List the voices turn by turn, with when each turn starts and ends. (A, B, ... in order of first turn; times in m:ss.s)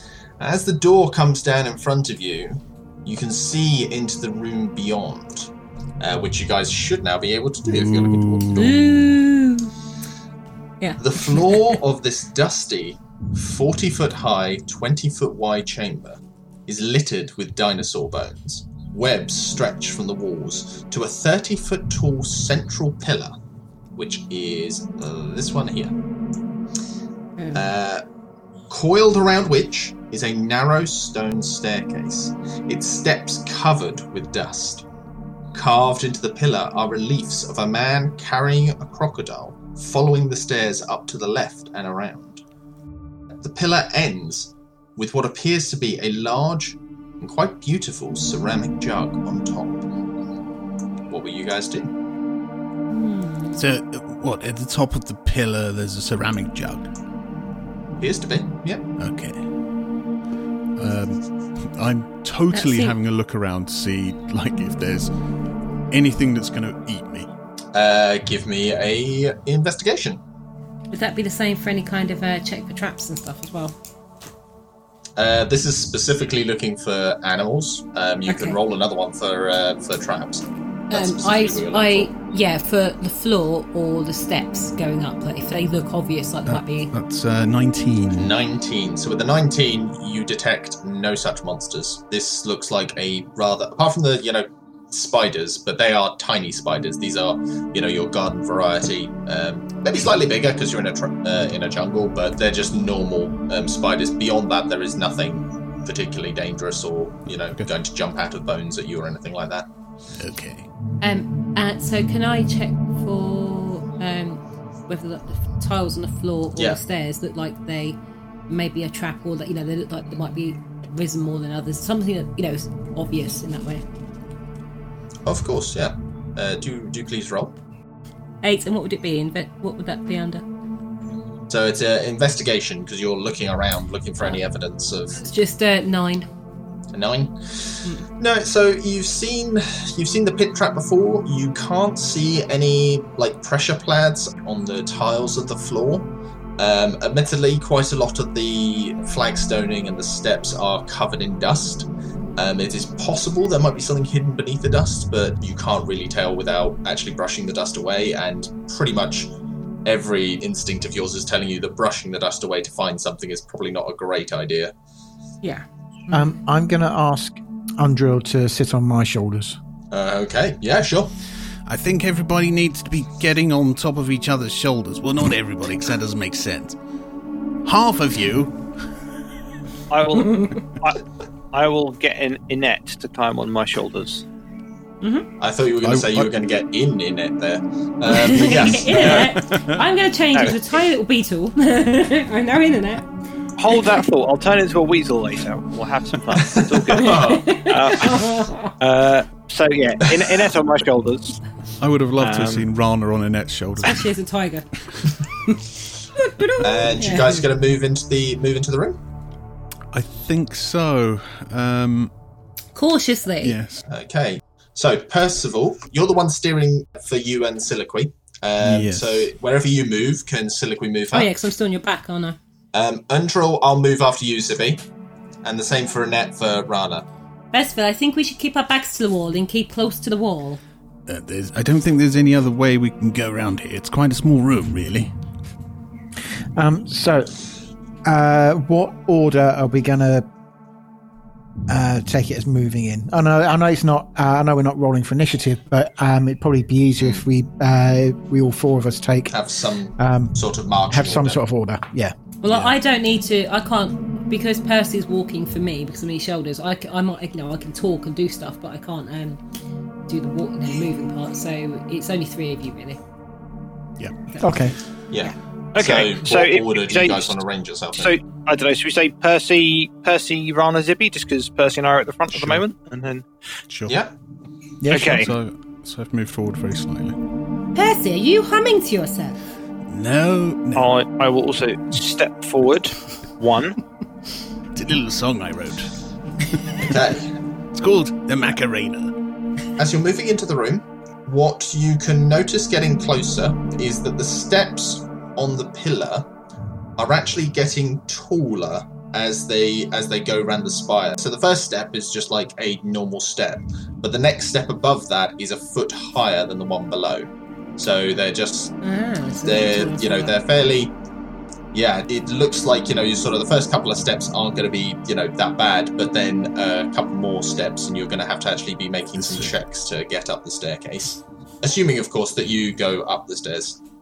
0:00.4-0:08.8 A
0:07.7-0:08.9 B
0:08.5-0:09.7 C
0:10.8-0:11.8 C
0:11.0-0:23.3 A
0:24.0-0:25.9 A
0:27.4-0:27.6 C
0:27.5-0:28.0 A
0:28.7-0:34.8 A
0:35.5-0:42.4 A
0:43.4-0:49.8 A
0:51.1-0:51.9 A
0:52.9-0:53.6 C
0:53.5-0:56.9 B
0:58.0-0:58.8 A
0:59.0-0:59.4 B
1:00.8-1:01.2 B
1:01.7-1:02.7 B
1:02.5-1:03.0 C
1:02.7-1:03.9 D
1:03.7-1:05.1 B
1:05.9-1:07.3 B
1:07.7-1:10.2 A
1:10.9-1:13.7 C
1:15.2-1:22.1 A
1:18.3-1:18.6 C
1:20.9-1:26.9 C
1:26.5-1:28.3 B
1:28.1-1:49.7 A
1:50.2-1:50.7 B
1:51.0-1:58.0 C
1:58.5-2:03.8 C
2:05.2-2:07.6 A
2:08.4-2:10.4 C
2:11.5-2:15.2 A
2:15.1-2:16.3 C
2:16.9-2:39.3 A
2:39.8-2:44.7 A
2:45.4-2:46.4 C
2:46.1-2:49.6 E
2:49.9-2:51.1 A
2:51.6-2:56.8 B
2:57.6-2:58.5 B
2:59.9-3:04.2 F
3:00.2-3:00.6 C
3:05.4-3:09.4 A
3:05.8-3:06.3 B
3:08.1-3:13.0 C
3:09.3-3:09.6 B
3:13.6-3:21.4 F
3:16.4-3:17.7 A
3:16.9-3:18.7 C
3:21.8-3:24.1 D
3:22.2-3:22.7 F
3:23.8-3:24.7 C
3:26.2-3:27.4 C
3:26.6-3:29.0 A
3:29.9-3:32.1 D
3:32.7-3:33.5 C
3:33.5-3:33.8 D
3:33.9-3:41.3 A
3:38.6-3:39.2 B
3:41.1-3:42.4 C
3:42.7-3:44.8 A
3:45.4-3:47.0 A
3:47.5-3:50.6 C
3:51.1-3:55.1 B
3:56.6-3:57.3 E
3:58.0-4:00.2 E
4:01.7-4:09.3 E
4:09.3-4:11.4 A
4:10.0-4:10.4 E
4:10.9-4:12.1 E
4:12.4-4:19.4 C
4:20.1-4:23.0 C
4:24.4-4:24.7 E
4:25.1-4:28.1 A
4:25.7-4:27.4 F
4:28.0-4:33.2 F
4:34.8-4:35.3 E
4:34.9-4:35.3 F
4:34.9-4:37.2 D
4:37.7-4:39.4 C
4:39.9-4:40.9 B
4:40.7-4:43.8 F
4:44.7-4:45.9 B
4:46.8-4:47.3 A
4:47.7-4:49.1 B
4:49.8-4:56.3 A
4:57.0-5:08.7 A
5:08.8-5:10.3 C
5:09.4-5:10.9 A
5:11.7-5:23.8 A
5:19.2-5:19.5 B